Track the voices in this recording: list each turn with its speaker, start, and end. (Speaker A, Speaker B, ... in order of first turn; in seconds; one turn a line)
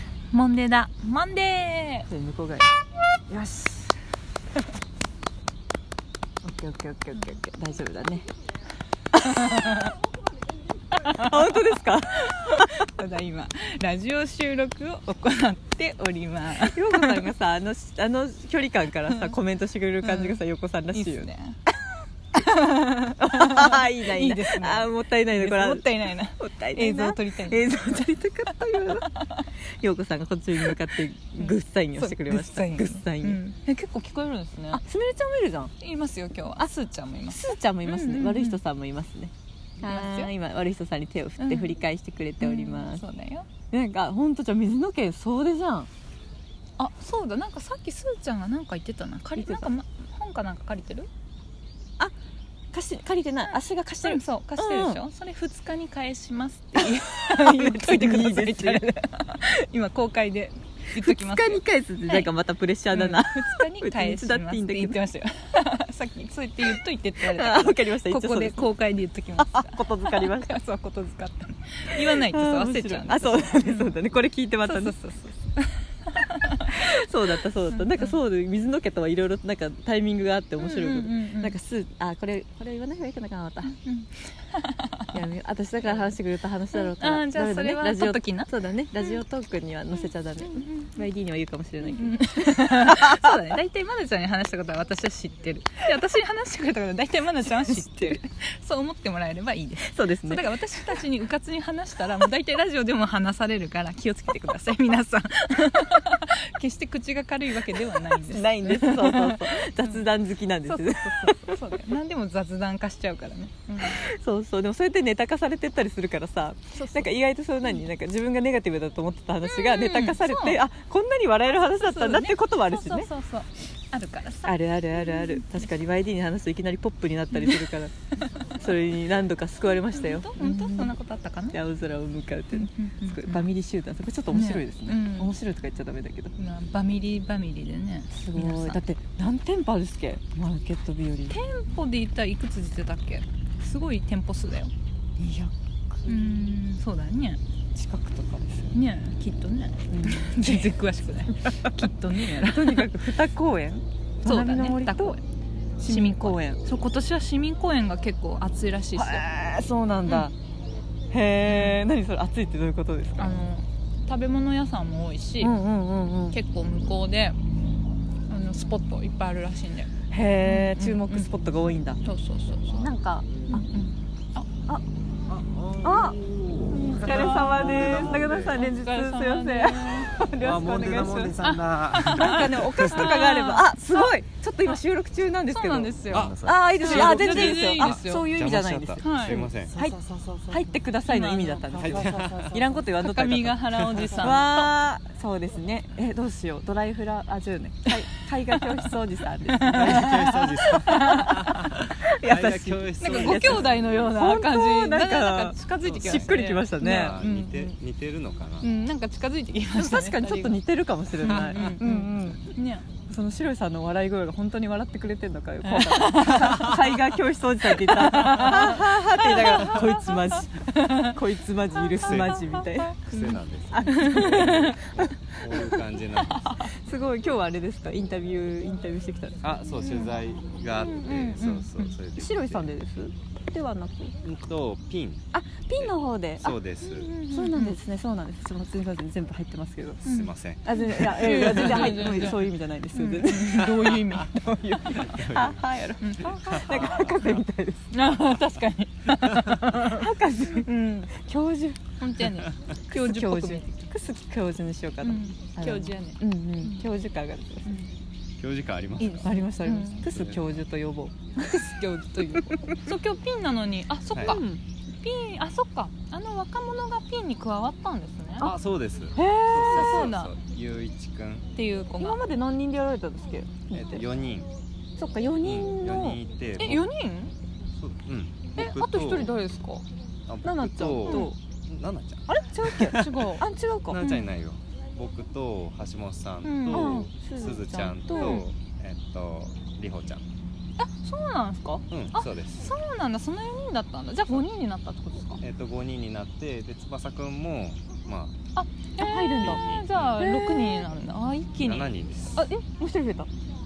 Speaker A: 0.3-2.1
Speaker B: 2.1-2.7
Speaker B: 3.3-4.0
Speaker B: 6.4-8.3
Speaker A: 9.2-9.9
Speaker A: 10.9-11.6
Speaker B: 11.0-12.8
Speaker A: 12.2-17.2
Speaker B: 16.5-21.3
Speaker A: 20.0-20.4
Speaker A: 20.9-21.6
Speaker A: 22.4-29.4
Speaker B: 23.1-29.2
Speaker B: 29.8-33.4
Speaker A: 31.4-34.8
Speaker B: 34.7-35.7
Speaker A: 35.8-38.6
Speaker B: 37.3-43.0
Speaker A: 39.8-40.3
Speaker A: 41.4-41.8
Speaker A: 42.4-43.5
Speaker B: 43.7-45.9
Speaker A: 46.8-51.1
Speaker B: 49.4-49.7
Speaker B: 52.7-55.0
Speaker A: 54.0-62.3
Speaker B: 56.8-58.9
Speaker B: 61.0-65.0
Speaker A: 62.9-74.0
Speaker B: 67.2-68.7
Speaker B: 69.4-70.6
Speaker B: 71.9-75.0
Speaker A: 74.7-76.6
Speaker B: 76.7-83.8
Speaker A: 77.7-78.2
Speaker A: 80.6-81.5
Speaker A: 83.7-85.2
Speaker B: 85.1-93.3
Speaker A: 86.8-88.5
Speaker A: 90.4-90.9
Speaker A: 91.8-110.0
Speaker B: 97.6-98.2
Speaker B: 99.9-100.5
Speaker B: 108.2-111.6
Speaker A: 110.7-114.1
Speaker B: 113.8-123.1
Speaker A: 116.8-117.2
Speaker A: 119.5-120.6
Speaker A: 121.8-125.7
Speaker B: 124.5-130.9
Speaker A: 127.3-127.6
Speaker A: 128.2-128.4
Speaker A: 129.9-131.6
Speaker B: 131.5-136.3
Speaker A: 132.5-133.5
Speaker A: 134.3-135.3
Speaker A: 136.4-138.8
Speaker B: 138.1-141.4
Speaker A: 141.3-144.7
Speaker B: 145.2-146.4
Speaker A: 146.1-147.4
Speaker B: 147.8-148.8
Speaker A: 148.7-152.9
Speaker B: 149.9-150.7
Speaker B: 152.2-155.2
Speaker A: 154.2-155.2
Speaker A: 155.8-159.2
Speaker B: 155.8-156.6
Speaker B: 158.9-160.3
Speaker B: 161.1-163.3
Speaker A: 161.4-161.8
Speaker A: 163.2-165.6
Speaker B: 165.4-166.4
Speaker A: 166.3-167.4
Speaker A: 168.3-169.9
Speaker B: 170.1-172.0
Speaker A: 170.4-171.3
Speaker A: 172.0-172.9
Speaker B: 172.7-173.7
Speaker A: 173.5-174.5
Speaker C: 175.3-178.6
Speaker B: 175.8-176.2
Speaker B: 176.7-181.4
Speaker A: 176.8-180.1
Speaker C: 180.4-183.1
Speaker A: 181.4-184.1
Speaker B: 182.0-207.7
Speaker A: 185.5-188.3
Speaker C: 186.1-190.3
Speaker A: 189.0-189.5
Speaker A: 191.1-191.8
Speaker C: 191.8-192.7
Speaker A: 193.0-194.7
Speaker A: 199.6-201.3
Speaker C: 199.7-203.9
Speaker A: 203.0-207.6
Speaker C: 205.8-208.7
Speaker A: 208.6-210.6
Speaker B: 209.7-212.5
Speaker A: 211.2-212.9
Speaker B: 213.1-223.0
Speaker A: 215.7-216.8
Speaker A: 217.9-221.2
Speaker C: 221.9-226.5
Speaker A: 223.1-224.8
Speaker B: 223.7-225.1
Speaker A: 225.6-226.7
Speaker B: 226.6-229.4
Speaker C: 229.4-232.7
Speaker A: 229.8-230.2
Speaker A: 230.8-232.0
Speaker B: 232.2-234.2
Speaker C: 234.2-235.3
Speaker B: 235.3-236.6
Speaker C: 235.8-237.2
Speaker A: 236.8-237.8
Speaker B: 237.3-240.0
Speaker A: 240.0-245.2
Speaker C: 240.1-241.3
Speaker B: 240.6-244.0
Speaker B: 244.7-247.9
Speaker C: 245.0-245.6
Speaker A: 246.0-246.9
Speaker C: 246.4-246.8
Speaker A: 247.9-251.1
Speaker B: 249.8-251.8
Speaker A: 252.0-253.8
Speaker B: 252.9-257.7
Speaker A: 255.0-256.8
Speaker C: 258.4-259.4
Speaker A: 259.0-260.1
Speaker B: 259.2-261.1
Speaker C: 260.0-260.6
Speaker A: 261.4-264.4
Speaker C: 264.1-264.4
Speaker B: 264.2-264.6
Speaker A: 265.0-268.5
Speaker C: 268.4-271.5
Speaker B: 269.2-270.0
Speaker A: 269.7-270.3
Speaker A: 271.6-272.2
Speaker B: 272.0-274.1
Speaker C: 273.7-274.5
Speaker B: 275.0-276.2
Speaker C: 275.4-276.9
Speaker A: 276.6-277.3
Speaker C: 277.8-279.3
Speaker A: 278.6-279.9
Speaker C: 280.3-283.3
Speaker B: 280.4-281.4
Speaker A: 281.0-281.3
Speaker A: 282.3-283.4
Speaker B: 282.3-284.0
Speaker C: 283.9-290.2
Speaker A: 284.0-284.3
Speaker A: 286.4-287.1
Speaker B: 286.7-288.4
Speaker A: 288.1-288.5
Speaker A: 290.8-295.4
Speaker C: 291.9-292.7
Speaker C: 295.4-298.4
Speaker A: 298.6-302.5
Speaker B: 299.0-299.6
Speaker C: 299.4-300.2
Speaker B: 300.2-300.9
Speaker C: 301.6-302.5
Speaker B: 302.5-303.3